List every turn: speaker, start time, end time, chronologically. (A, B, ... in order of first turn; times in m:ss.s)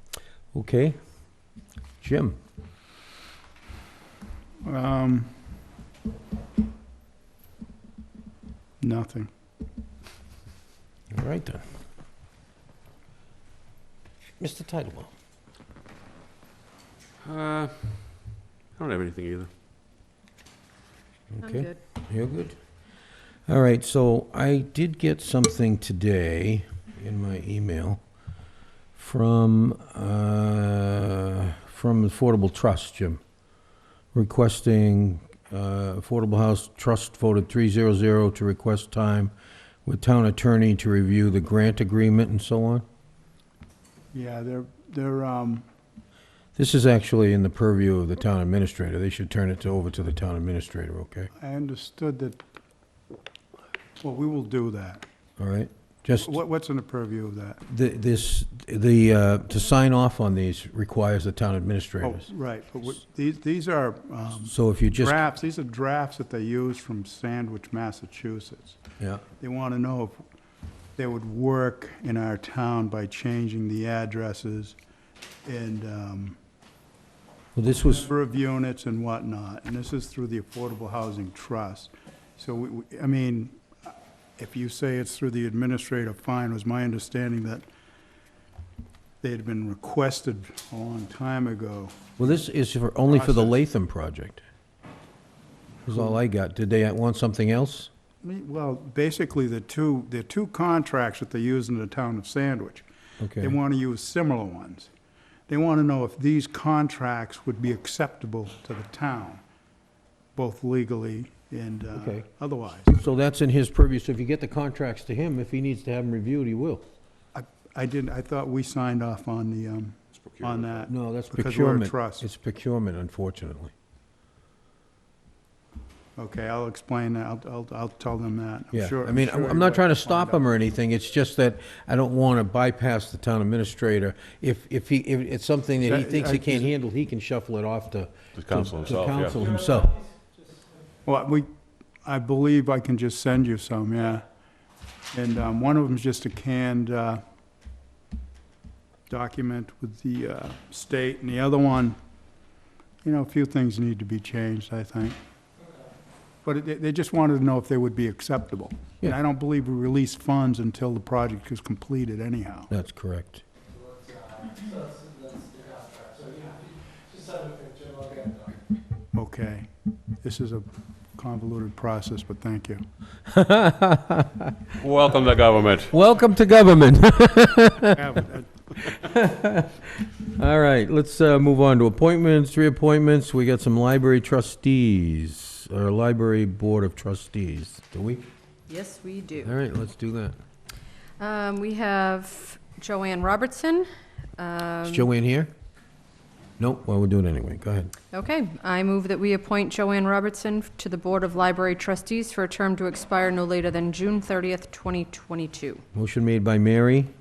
0:00.5-0:01.0 A
0:02.0-0:02.4 A
0:04.6-0:05.3 B
0:08.8-0:09.3 B
0:11.1-0:11.6 A
0:14.4-0:15.1 A
0:17.2-0:19.5 C
0:21.3-0:22.6 A
0:21.4-0:21.8 D
0:23.5-0:28.0 A
0:29.0-0:33.2 A
0:34.1-0:39.3 A
0:39.8-0:42.8 A
0:44.1-0:45.6 B
0:46.6-0:51.3 A
0:51.4-0:52.4 B
0:54.0-0:55.0 B
0:55.4-0:56.3 A
0:56.2-0:57.6 B
0:57.7-1:02.2 A
1:02.0-1:08.8 B
1:04.4-1:05.2 A
1:09.4-1:10.2 B
1:11.0-1:14.8 B
1:15.4-1:16.4 B
1:17.6-1:18.1 A
1:17.9-1:27.7 B
1:29.2-1:32.0 B
1:32.2-1:34.4 A
1:33.1-1:33.6 B
1:35.9-1:37.9 A
1:38.2-1:42.9 B
1:43.2-1:43.6 A
1:43.4-1:44.9 B
1:45.5-1:49.4 B
1:50.4-1:52.9 B
1:51.9-1:52.2 A
1:52.9-1:56.8 A
1:57.3-2:02.3 B
2:00.2-2:00.8 C
2:00.9-2:03.7 A
2:06.2-2:10.4 B
2:08.7-2:20.0 A
2:15.8-2:16.7 B
2:18.4-2:19.4 C
2:21.0-2:21.5 B
2:22.0-2:24.2 B
2:25.1-2:27.2 B
2:29.1-2:32.0 B
2:33.0-2:35.2 B
2:36.4-2:42.7 B
2:42.7-2:43.4 A
2:49.1-2:49.7 B
2:50.2-2:52.8 B
2:53.3-2:54.6 A
2:54.8-2:55.9 C
2:55.9-2:58.1 A
2:57.9-2:58.8 B
2:58.9-3:08.2 A
3:08.7-3:09.6 D
3:09.4-3:10.4 A
3:11.2-3:15.1 D
3:14.8-3:15.5 A
3:16.6-3:17.9 A
3:18.1-3:25.8 D
3:25.9-3:27.1 A